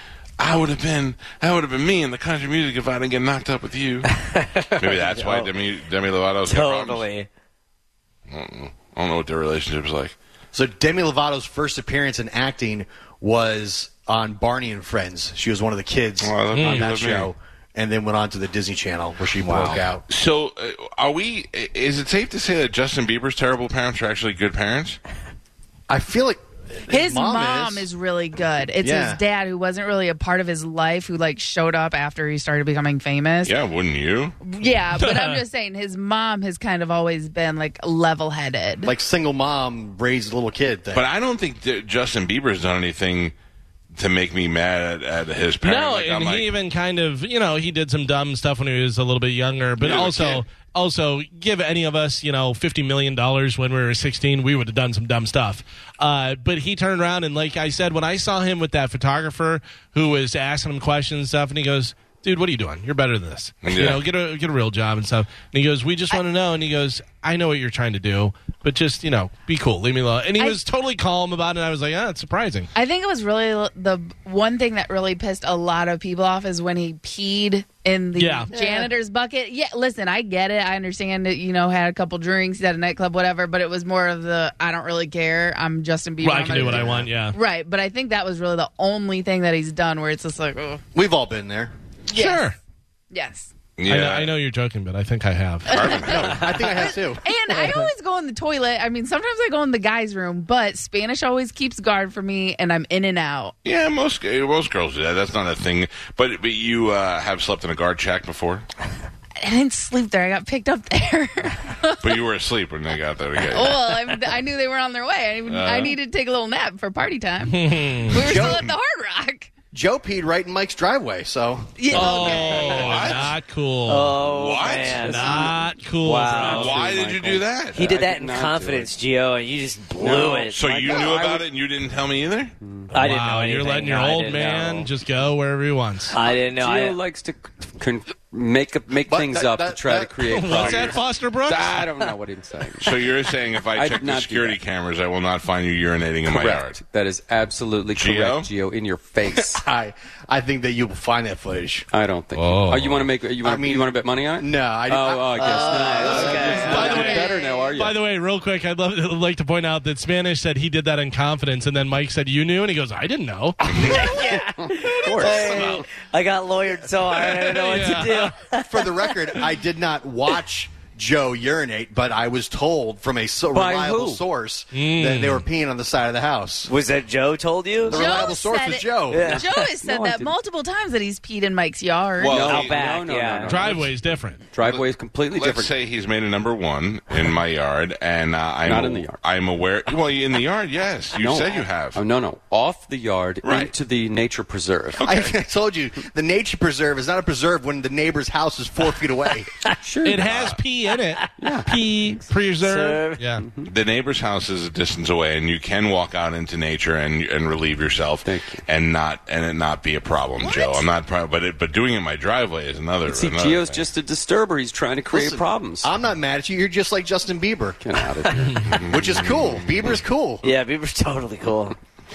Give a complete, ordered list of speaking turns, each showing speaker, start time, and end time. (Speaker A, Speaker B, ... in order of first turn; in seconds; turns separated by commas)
Speaker A: 0.4-4.1, Speaker A: 4.7-7.1, Speaker B: 4.8-5.5, Speaker B: 6.5-7.3, Speaker A: 8.3-10.2, Speaker C: 10.5-20.0, Speaker A: 16.2-17.3, Speaker D: 16.5-16.9, Speaker A: 19.5-25.0, Speaker C: 25.9-27.9, Speaker E: 26.9-33.6, Speaker C: 28.8-29.2, Speaker A: 33.4-34.4, Speaker E: 34.4-38.9, Speaker D: 35.0-35.4, Speaker C: 38.8-41.0, Speaker A: 40.9-43.3, Speaker A: 43.9-46.5, Speaker D: 45.6-72.7, Speaker A: 49.8-50.4, Speaker A: 63.6-64.1, Speaker E: 72.7-90.8, Speaker D: 78.2-78.5, Speaker C: 78.5-78.9, Speaker D: 86.2-87.4, Speaker C: 86.5-87.1, Speaker C: 90.9-91.7, Speaker E: 92.1-92.6, Speaker D: 92.1-92.6, Speaker E: 93.1-93.5, Speaker A: 93.8-94.3, Speaker D: 93.9-96.2, Speaker A: 95.7-96.5, Speaker E: 95.7-103.5, Speaker C: 95.9-97.3, Speaker A: 103.6-108.7, Speaker E: 109.4-112.0, Speaker A: 112.0-113.8, Speaker E: 113.5-119.5, Speaker B: 113.6-113.9, Speaker A: 115.5-116.0, Speaker D: 117.4-118.3, Speaker C: 118.2-118.6, Speaker A: 118.4-118.7, Speaker C: 119.7-122.3, Speaker E: 121.8-123.2, Speaker D: 121.9-124.3, Speaker A: 122.8-123.3, Speaker B: 123.9-126.8, Speaker A: 124.3-125.3, Speaker D: 125.0-126.9, Speaker E: 125.2-125.5, Speaker F: 126.4-128.9, Speaker A: 126.4-127.8, Speaker B: 127.7-131.1, Speaker F: 130.0-131.5, Speaker A: 130.5-132.5, Speaker F: 132.6-132.9, Speaker D: 132.9-136.2, Speaker B: 132.9-134.9, Speaker B: 136.1-137.0, Speaker F: 136.3-143.1, Speaker C: 139.0-141.0, Speaker D: 140.3-141.8, Speaker A: 142.8-146.8, Speaker F: 143.7-144.6, Speaker F: 146.2-149.7, Speaker A: 147.9-148.5, Speaker C: 149.3-151.9, Speaker F: 151.9-158.0, Speaker A: 152.3-153.1, Speaker D: 152.5-153.0, Speaker C: 153.4-157.3, Speaker B: 155.4-157.1, Speaker E: 155.6-156.0, Speaker D: 156.0-163.7, Speaker E: 156.7-157.7, Speaker B: 163.7-168.8, Speaker F: 164.6-165.8, Speaker C: 165.2-165.8, Speaker D: 167.3-168.3, Speaker C: 168.7-176.7, Speaker F: 173.5-174.2, Speaker D: 174.7-175.5, Speaker B: 176.7-178.2, Speaker C: 177.9-179.4, Speaker E: 177.9-182.4, Speaker B: 179.1-179.6, Speaker F: 179.1-180.3, Speaker A: 182.2-182.8, Speaker F: 182.2-185.7, Speaker B: 182.4-183.8, Speaker D: 183.5-184.5, Speaker A: 184.6-192.0, Speaker F: 188.6-189.2, Speaker F: 191.2-195.0, Speaker A: 193.4-193.7, Speaker A: 195.0-195.4, Speaker C: 195.1-199.6, Speaker F: 199.8-200.3, Speaker D: 200.0-203.5, Speaker A: 200.2-200.6, Speaker F: 201.4-201.8, Speaker B: 202.6-203.2, Speaker F: 203.4-203.7, Speaker A: 203.7-213.9, Speaker F: 208.2-208.6, Speaker B: 210.4-210.8, Speaker F: 213.1-215.9, Speaker C: 215.1-217.8, Speaker F: 217.8-218.8, Speaker A: 218.7-220.0, Speaker C: 218.8-220.5, Speaker B: 220.4-221.8